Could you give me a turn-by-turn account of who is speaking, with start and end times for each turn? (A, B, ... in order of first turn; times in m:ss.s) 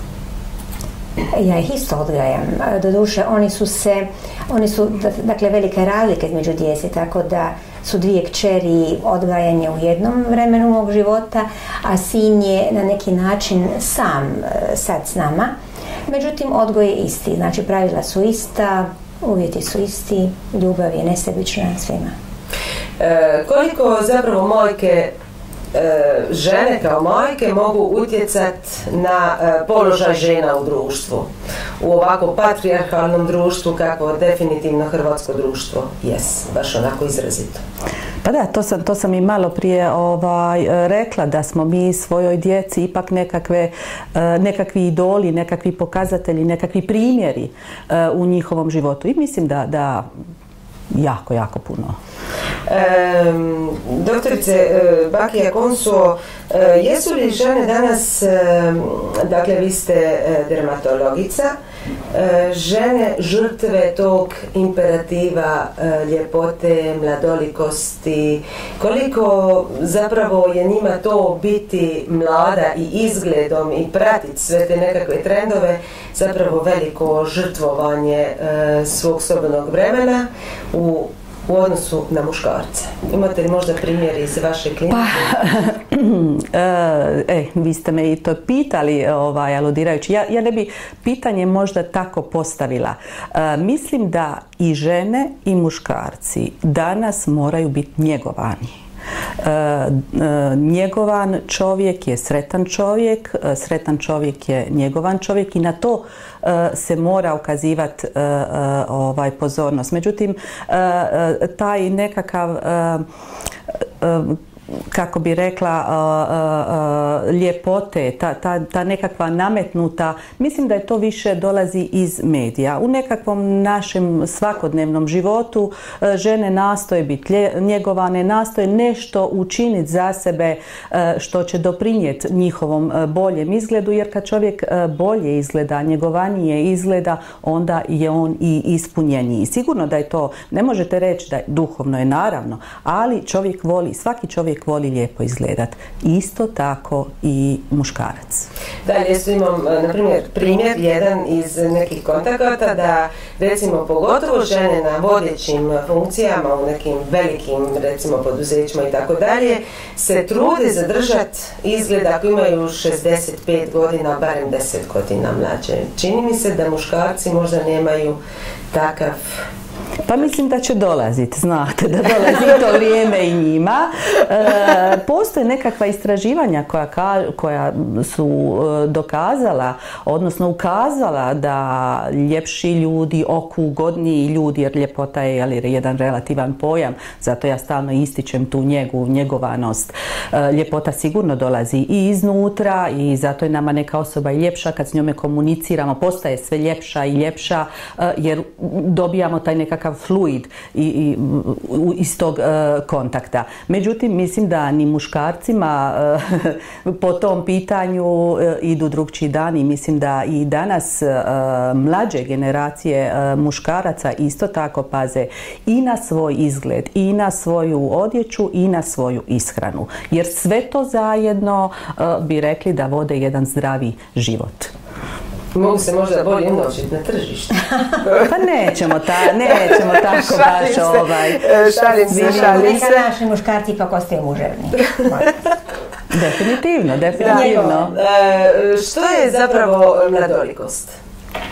0:01.3-0:15.5 A
0:16.1-0:22.1 A
0:23.0-0:25.1 B
0:25.7-0:31.3 B
0:31.8-0:37.6 B
0:38.2-0:50.0 C
0:50.9-0:52.0 C
0:52.7-1:01.5 B
1:02.1-1:25.4 B
1:24.9-1:38.8 C
1:39.4-1:53.0 C
1:54.0-1:54.4 C
1:54.9-2:28.5 C
2:28.8-2:48.2 B
2:48.7-2:49.4 B
2:50.0-3:44.7 C
3:45.5-3:48.4 B
3:48.2-3:51.4 C
3:49.3-3:53.0 B
3:52.1-3:52.8 C
3:52.1-3:55.3 A
3:56.1-3:57.9 C
3:57.2-4:00.9 B
3:57.2-3:57.9 A